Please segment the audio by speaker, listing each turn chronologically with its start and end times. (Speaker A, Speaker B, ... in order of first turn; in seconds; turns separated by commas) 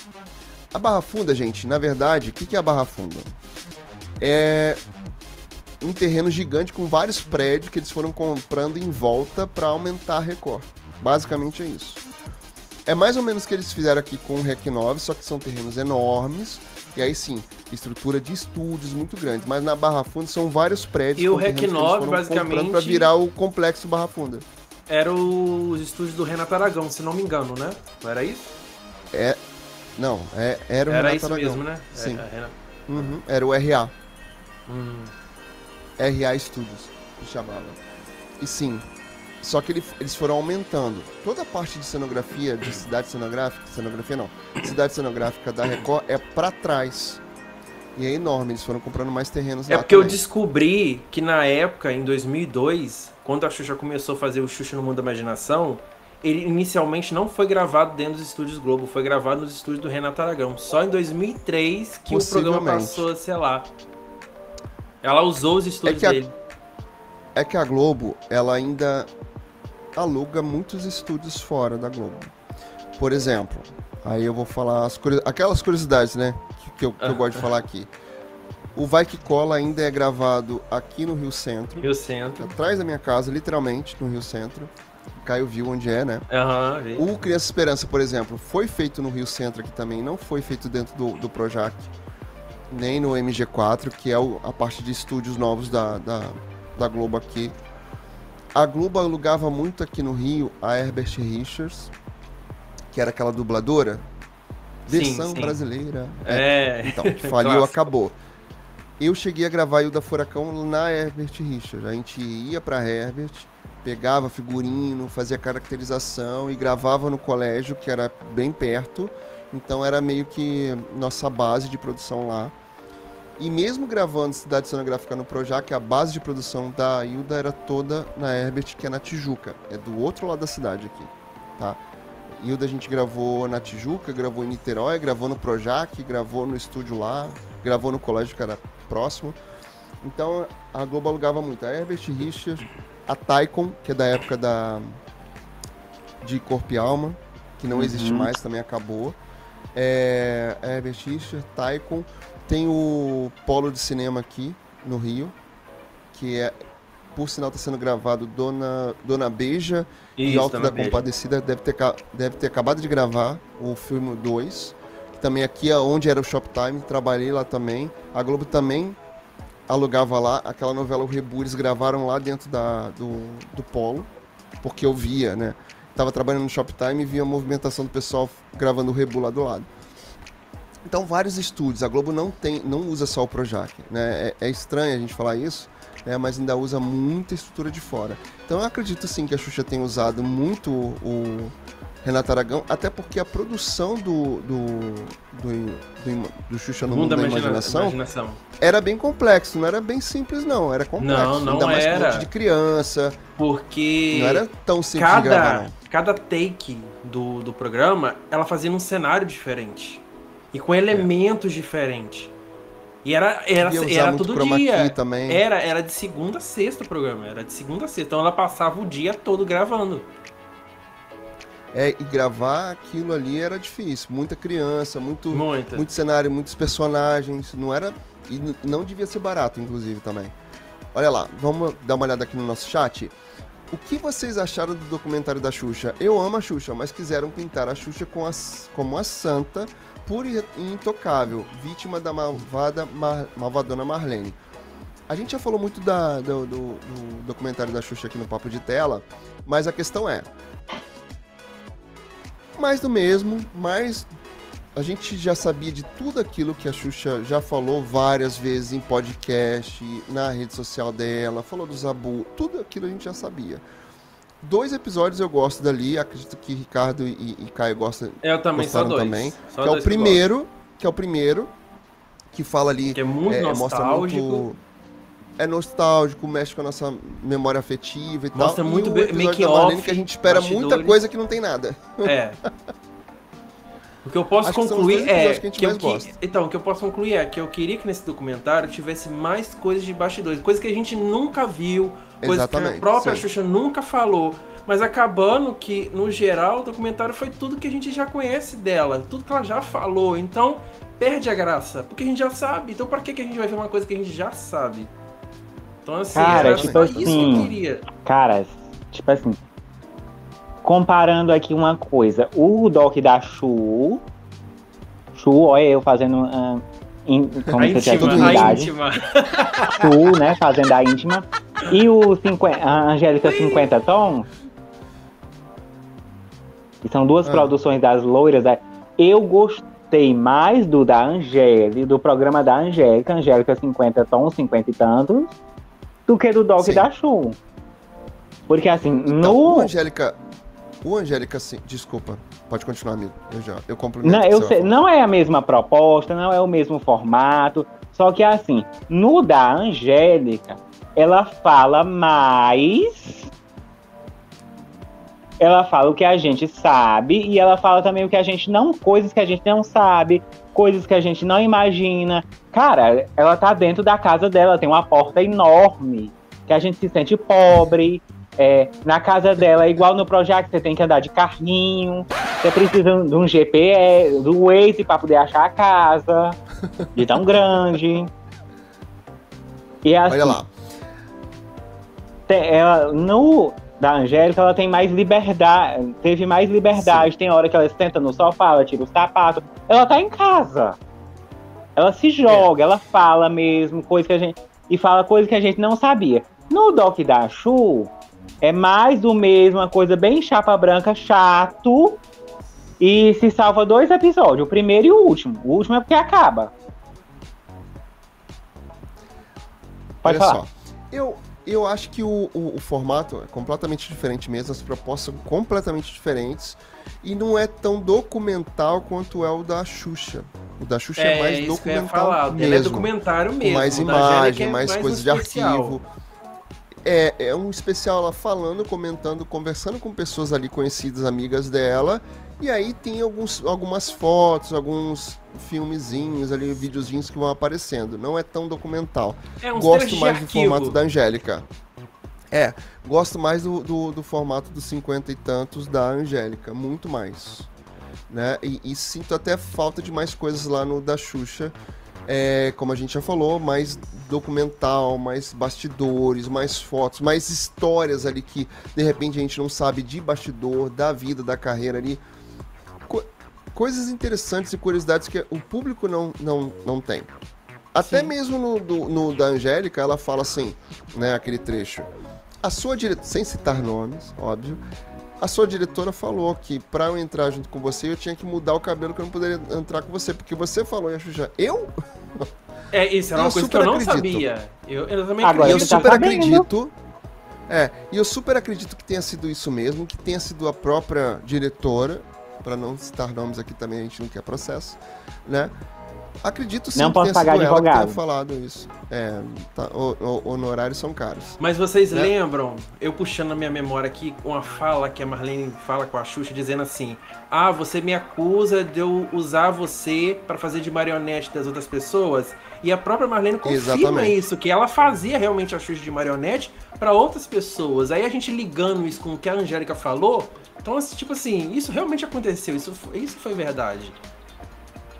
Speaker A: 0.7-3.3, Speaker A: 4.2-4.8, Speaker A: 5.8-12.0, Speaker A: 12.9-24.4, Speaker B: 21.2-23.1, Speaker B: 24.9-28.5, Speaker A: 29.1-29.4, Speaker A: 30.0-32.2, Speaker B: 30.9-33.1, Speaker A: 32.9-33.9, Speaker B: 34.7-35.1, Speaker A: 36.0-37.8, Speaker A: 38.4-38.9, Speaker A: 39.4-47.2, Speaker A: 48.0-50.2, Speaker B: 49.7-63.7, Speaker A: 62.1-63.0, Speaker B: 65.0-66.3, Speaker A: 65.8-66.2, Speaker A: 67.3-69.1, Speaker A: 70.0-72.3, Speaker A: 73.0-77.9, Speaker B: 77.0-77.4, Speaker A: 78.8-84.7, Speaker B: 81.8-82.5, Speaker A: 85.2-86.2, Speaker B: 86.3-87.0, Speaker A: 87.0-91.9, Speaker A: 92.7-97.5, Speaker A: 98.5-101.9, Speaker A: 102.9-104.0, Speaker A: 104.9-108.2, Speaker B: 104.9-105.6, Speaker B: 106.2-107.8, Speaker A: 109.0-122.5, Speaker A: 123.4-131.8, Speaker A: 132.3-139.4, Speaker A: 140.0-145.0, Speaker A: 146.2-149.2, Speaker C: 147.7-148.3, Speaker A: 149.7-155.3, Speaker A: 156.1-156.5, Speaker A: 157.1-169.0, Speaker B: 160.2-161.0, Speaker A: 169.7-174.1, Speaker A: 174.6-179.7, Speaker A: 180.8-198.0, Speaker B: 196.9-198.4, Speaker A: 198.6-203.2, Speaker B: 201.0-202.3, Speaker B: 203.4-212.3, Speaker A: 204.1-205.7, Speaker B: 213.0-220.1, Speaker A: 213.6-215.4, Speaker A: 221.7-230.3, Speaker B: 225.3-225.9, Speaker A: 230.9-233.1, Speaker A: 233.7-244.4, Speaker A: 245.1-250.3, Speaker A: 252.6-254.1, Speaker A: 254.8-263.6, Speaker A: 264.4-271.5, Speaker B: 268.2-270.2, Speaker A: 272.3-274.6, Speaker B: 272.9-274.4, Speaker A: 275.4-282.1, Speaker B: 278.3-281.0, Speaker B: 282.0-282.4, Speaker B: 284.0-304.9, Speaker A: 284.4-286.1, Speaker A: 292.2-293.2, Speaker B: 305.8-307.9, Speaker C: 306.1-309.4, Speaker A: 306.2-307.5, Speaker C: 310.6-314.0, Speaker C: 315.1-318.7, Speaker B: 317.6-319.9, Speaker A: 317.6-318.7, Speaker C: 319.7-324.3, Speaker B: 323.2-323.7, Speaker C: 326.8-335.4, Speaker A: 327.2-327.5, Speaker C: 336.1-337.4, Speaker A: 336.6-336.9, Speaker C: 338.5-339.7, Speaker A: 339.1-340.2, Speaker A: 340.8-344.7, Speaker C: 344.0-353.3, Speaker C: 355.4-376.4, Speaker C: 376.9-378.1, Speaker C: 379.8-380.4, Speaker A: 380.1-380.5, Speaker C: 382.3-390.8, Speaker A: 386.7-387.1, Speaker C: 391.8-402.0, Speaker C: 402.8-406.5, Speaker C: 410.0-410.4, Speaker A: 410.0-422.9, Speaker B: 421.0-425.8, Speaker A: 423.4-425.8, Speaker A: 426.8-441.4, Speaker B: 439.4-440.8, Speaker A: 442.3-447.5, Speaker A: 448.1-451.5, Speaker A: 452.1-462.0, Speaker A: 462.9-467.1, Speaker A: 467.7-471.9, Speaker A: 472.4-474.6, Speaker A: 475.2-482.3, Speaker B: 482.7-485.9, Speaker A: 483.1-484.2, Speaker C: 485.2-486.5, Speaker A: 485.4-486.7, Speaker A: 487.5-495.5, Speaker A: 496.2-501.4, Speaker C: 496.8-498.0, Speaker B: 501.4-524.0, Speaker A: 513.4-514.2